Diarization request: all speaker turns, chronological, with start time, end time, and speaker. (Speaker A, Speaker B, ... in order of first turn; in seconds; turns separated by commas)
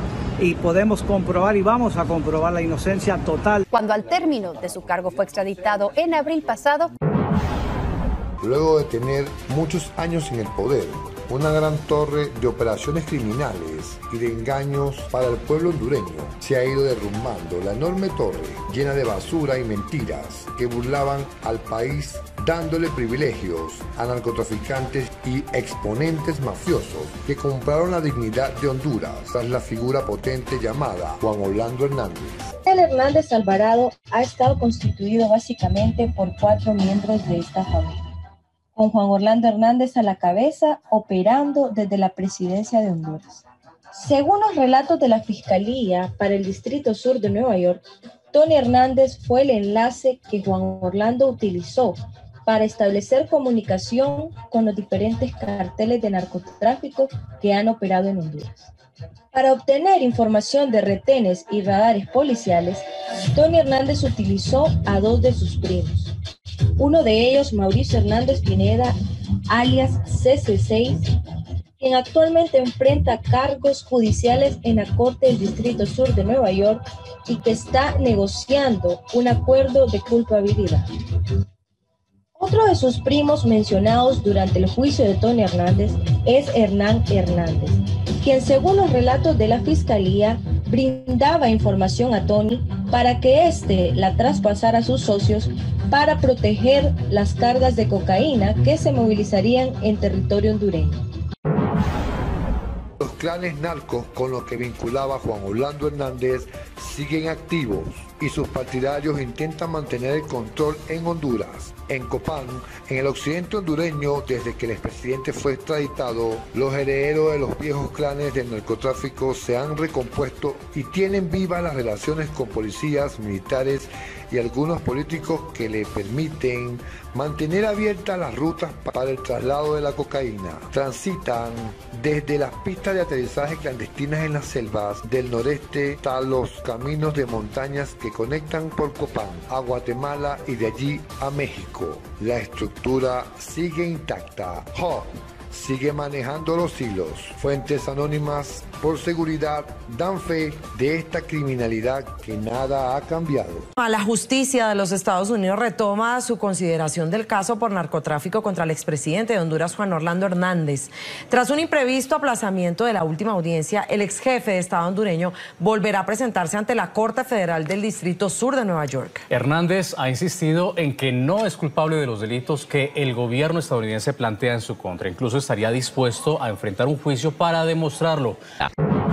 Speaker A: 0.4-3.6, Speaker B: 3.7-6.9, Speaker C: 8.4-32.5, Speaker D: 32.6-38.0, Speaker D: 38.8-58.7, Speaker D: 59.3-66.1, Speaker D: 66.8-68.9, Speaker D: 69.5-71.1, Speaker D: 71.8-80.8, Speaker D: 82.4-101.0, Speaker C: 103.0-153.7, Speaker E: 153.8-169.2, Speaker F: 169.3-178.4